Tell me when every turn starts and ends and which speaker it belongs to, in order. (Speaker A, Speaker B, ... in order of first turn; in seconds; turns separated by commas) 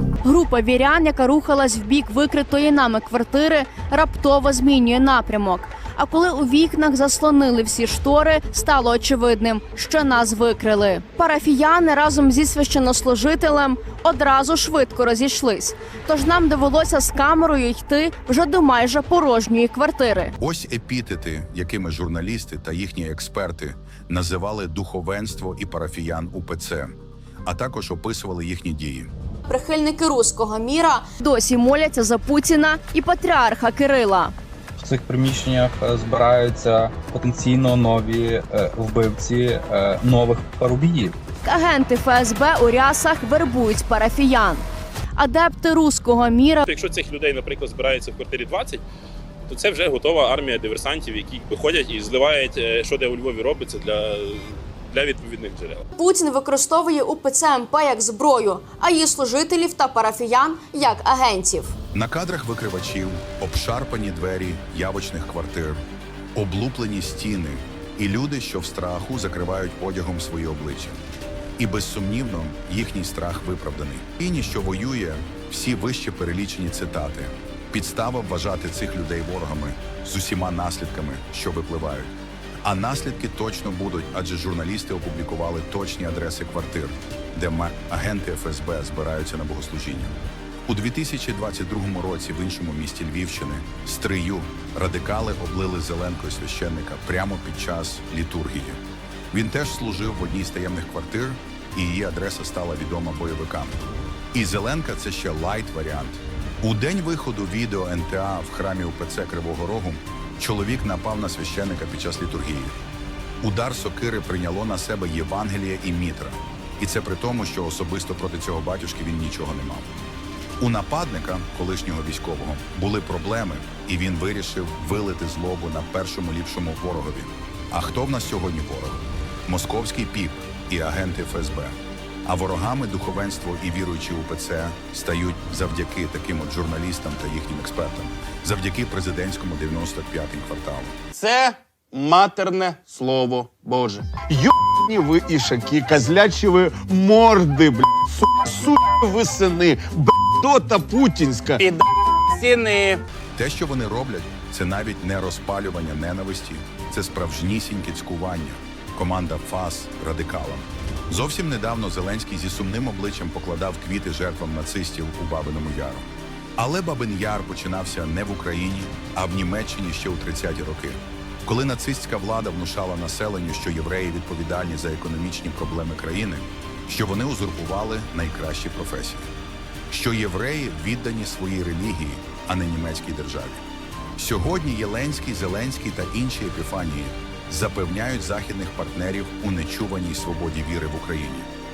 Speaker A: 0.2-20.3, Speaker B: 20.4-26.9, Speaker B: 27.5-29.1, Speaker A: 29.4-34.3, Speaker C: 34.8-41.2, Speaker A: 41.4-44.7, Speaker A: 45.2-46.6, Speaker D: 46.6-48.8, Speaker D: 49.5-55.8, Speaker A: 56.0-61.8, Speaker B: 61.9-65.8, Speaker B: 66.3-71.0, Speaker B: 71.6-82.1, Speaker B: 82.7-90.1, Speaker B: 90.7-98.8, Speaker B: 99.3-103.8, Speaker B: 104.3-112.8, Speaker B: 113.4-119.9, Speaker B: 120.6-140.9, Speaker E: 141.2-141.5, Speaker E: 142.1-144.0, Speaker F: 142.8-151.8, Speaker E: 152.3-153.0, Speaker B: 153.4-179.3, Speaker B: 179.9-183.6, Speaker B: 184.2-191.5